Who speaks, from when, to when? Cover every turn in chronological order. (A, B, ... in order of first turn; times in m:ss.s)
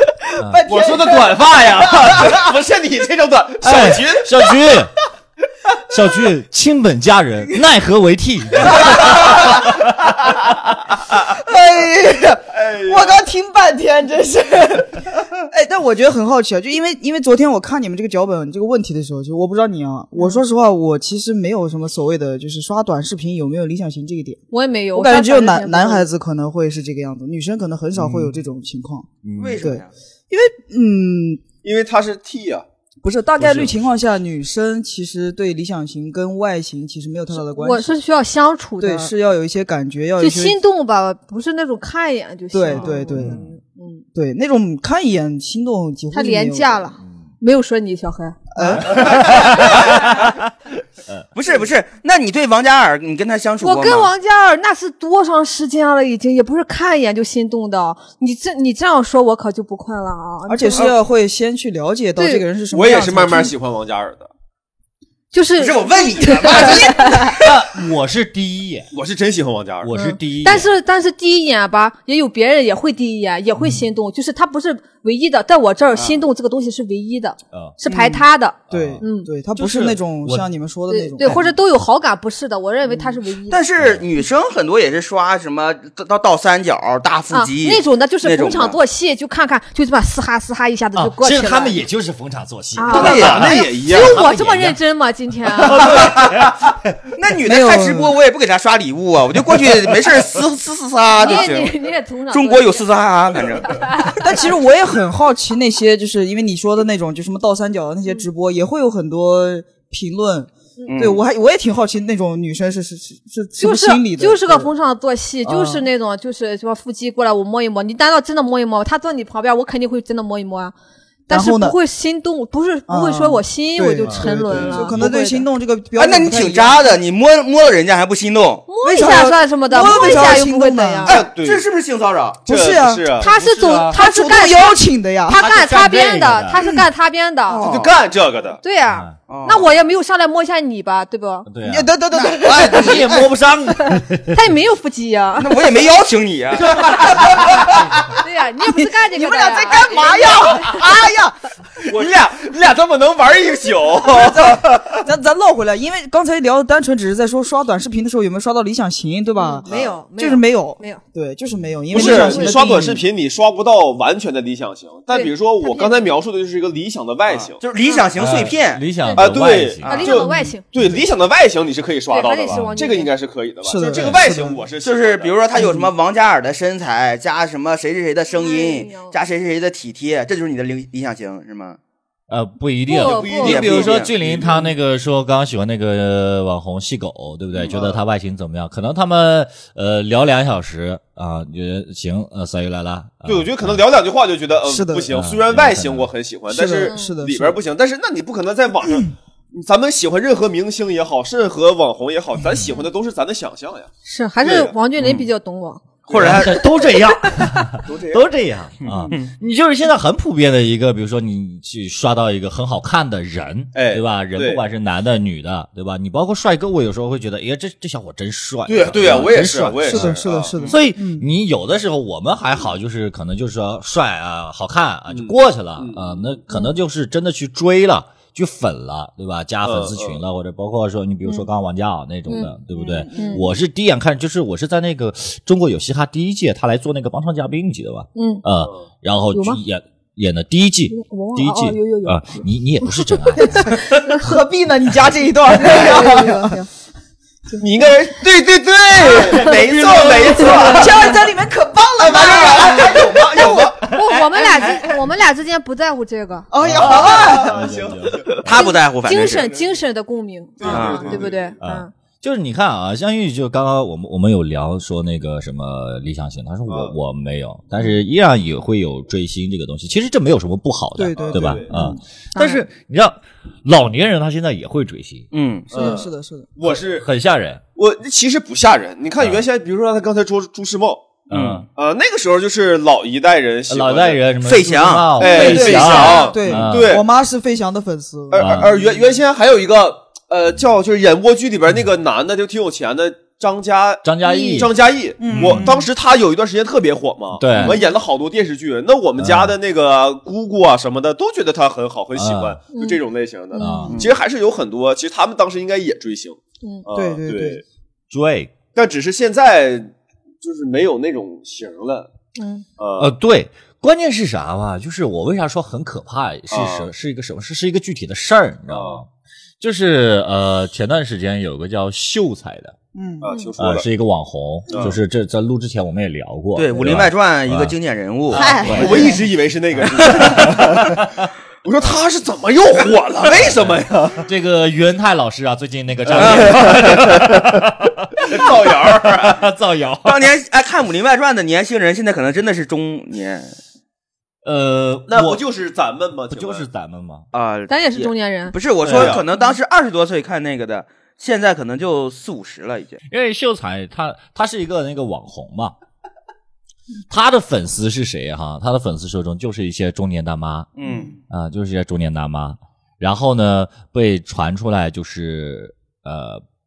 0:00.4-0:02.2 A
0:00.6-0:04.2 B
0:03.6-0:05.0 C
0:05.8-0:09.9 C
0:08.7-0:09.6 B
0:11.1-0:24.4 A
0:12.5-0:13.2 B
0:24.5-0:26.1 D
0:24.9-0:31.4 A
0:28.0-0:28.3 C
0:29.2-0:29.7 C
0:29.4-0:29.9 E
0:31.6-0:32.7 B
0:33.0-0:38.0 A
0:33.4-0:33.8 C
0:37.3-0:39.1 D
0:38.8-0:40.6 A
0:40.2-0:44.0 D
0:42.5-0:43.4 A
0:42.7-0:43.5 C
0:44.1-0:46.9 A
0:46.1-0:48.7 D
0:47.0-0:47.3 C
0:48.5-0:49.5 A
0:48.8-0:50.4 C
0:49.2-0:50.2 E
0:51.4-0:54.1 E
0:53.6-1:00.9 D
1:00.5-1:03.5 A
1:02.2-1:02.4 D
1:02.7-1:04.3 B
1:05.3-1:07.4 D
1:05.6-1:07.5 E
1:07.3-1:08.9 C
1:08.9-1:09.9 B
1:09.8-1:10.7 C
1:09.9-1:19.3 D
1:16.0-1:16.2 E
1:17.5-1:17.8 C
1:17.9-1:18.2 E
1:18.7-1:19.0 C
1:18.7-1:21.6 A
1:19.6-1:20.5 C
1:20.9-1:23.6 D
1:23.5-1:28.8 E
1:23.8-1:24.1 C
1:27.3-1:31.8 D
1:31.0-1:34.8 C
1:32.8-1:36.0 D
1:32.9-1:33.5 E
1:32.9-1:34.2 B
1:35.6-1:36.6 C
1:35.8-1:36.5 E
1:37.2-1:41.8 E
1:37.4-1:38.2 A
1:41.2-1:42.9 D
1:42.3-1:44.1 E
1:43.6-1:44.2 D
1:44.1-1:54.7 A
1:50.9-1:51.2 E
1:53.6-2:00.7 D
1:55.4-1:55.9 A
2:01.3-2:05.4 D
2:01.3-2:01.8 A
2:02.9-2:06.8 A
2:04.0-2:04.3 C
2:04.8-2:05.1 C
2:06.0-2:08.6 E
2:08.7-2:11.2 D
2:08.8-2:11.2 A
2:09.8-2:10.3 E
2:11.1-2:11.6 B
2:11.1-2:12.5 E
2:12.5-2:13.2 A
2:12.5-2:13.3 B
2:13.2-2:17.6 D
2:13.2-2:14.0 C
2:13.9-2:15.4 A
2:15.3-2:16.6 C
2:16.6-2:16.8 A
2:17.5-2:18.0 E
2:17.6-2:18.6 B
2:18.6-2:21.5 D
2:18.9-2:19.2 C
2:19.3-2:19.7 E
2:21.5-2:24.4 C
2:21.6-2:23.3 A
2:22.2-2:23.2 E
2:23.8-2:25.6 D
2:25.4-2:27.8 E
2:26.5-2:28.1 C
2:28.2-2:30.6 D
2:28.8-2:31.4 A
2:31.8-2:35.0 B
2:34.1-2:43.0 A
2:39.4-2:41.0 D
2:39.7-2:40.0 B
2:41.9-2:47.6 B
2:41.9-2:42.8 D
2:45.1-2:46.1 D
2:47.3-2:48.8 E
2:48.2-2:50.0 C
2:49.0-2:50.6 D
2:49.1-2:55.4 B
2:49.8-2:50.2 E
2:52.1-2:53.1 D
2:52.5-2:52.8 C
2:53.6-2:54.6 A
2:54.8-3:01.8 E
2:55.6-2:55.9 A
2:58.4-2:59.2 D
3:02.3-3:13.8 C
3:02.9-3:03.9 D
3:03.0-3:04.7 B
3:03.4-3:04.1 E
3:07.6-3:08.0 B
3:13.2-3:23.9 B
3:14.7-3:15.1 A
3:15.1-3:16.1 C
3:16.5-3:17.6 A
3:16.8-3:17.1 D
3:24.0-3:25.8 D
3:24.4-3:24.7 B
3:25.0-3:25.3 E
3:26.1-3:26.5 B
3:26.1-3:26.9 E
3:26.1-4:03.6 C
3:27.8-3:28.3 B
3:28.8-3:29.3 E
3:33.7-3:34.6 B
3:38.7-3:40.8 B
3:39.8-3:41.3 A
3:45.1-3:46.2 B
3:49.6-3:50.2 B
3:52.3-3:52.5 D
3:52.7-3:53.5 A
3:53.1-3:53.4 D
3:58.2-3:58.4 D
3:59.3-3:59.6 D
4:00.9-4:04.2 D
4:03.5-4:06.5 A
4:05.6-4:06.7 D
4:07.6-4:11.1 B
4:09.0-4:11.0 E
4:10.4-4:10.8 D
4:10.7-4:13.7 A
4:12.0-4:13.9 B
4:12.1-4:13.4 E
4:12.3-4:16.5 D
4:16.5-4:17.6 A
4:16.6-4:18.7 C
4:16.8-4:18.5 B
4:18.3-4:19.5 E
4:18.5-4:21.9 D
4:19.1-4:19.7 B
4:20.6-4:21.6 B
4:20.6-4:21.2 E
4:21.6-4:35.3 C
4:26.7-4:27.0 B
4:31.0-4:32.0 A
4:31.1-4:31.7 B
4:32.4-4:32.6 D
4:35.3-4:36.0 E
4:35.7-4:37.1 B
4:35.7-4:36.5 A
4:36.7-4:37.6 C
4:37.8-4:44.3 B
4:39.2-4:39.4 C
4:41.3-4:41.7 E
4:41.3-4:41.7 C
4:43.7-4:47.0 C
4:44.4-4:46.3 E
4:45.2-4:47.1 B
4:45.2-4:48.8 A
4:48.3-5:07.6 B
4:48.4-4:48.8 C
4:54.0-4:55.7 C
4:54.2-4:54.7 D
4:55.2-4:55.9 A
4:57.4-4:57.8 C
4:57.7-4:58.0 D
4:59.2-4:59.6 C
5:02.2-5:02.6 C
5:02.7-5:03.0 D
5:03.5-5:03.9 D
5:03.6-5:04.0 C
5:03.9-5:04.2 E
5:06.9-5:07.6 A
5:08.1-5:08.6 C
5:08.7-5:12.1 B
5:12.4-5:12.6 D
5:12.8-5:13.1 B
5:13.0-5:19.1 C
5:16.5-5:16.9 B
5:18.7-5:19.0 B
5:19.6-5:22.8 C
5:22.9-5:23.3 A
5:23.2-5:23.9 B
5:23.6-5:27.8 C
5:24.7-5:25.0 B
5:26.6-5:29.2 E
5:28.3-5:29.1 C
5:28.3-5:29.2 A
5:28.5-5:31.0 B
5:30.0-5:31.2 C
5:30.1-5:30.5 E
5:31.6-5:34.3 B
5:33.3-5:33.7 E
5:33.4-5:33.7 C
5:34.3-5:40.3 C
5:36.1-5:37.6 B
5:36.2-5:36.6 E
5:38.2-5:39.4 B
5:40.0-5:43.6 E
5:44.4-5:45.4 C
5:45.1-5:46.7 B
5:46.3-5:47.3 C
5:47.3-5:53.0 E
5:47.7-5:48.6 D
5:48.8-5:49.3 B
5:48.9-5:49.2 C
5:53.1-5:55.7 C
5:57.1-6:00.7 C
6:00.8-6:01.2 E
6:01.3-6:06.4 C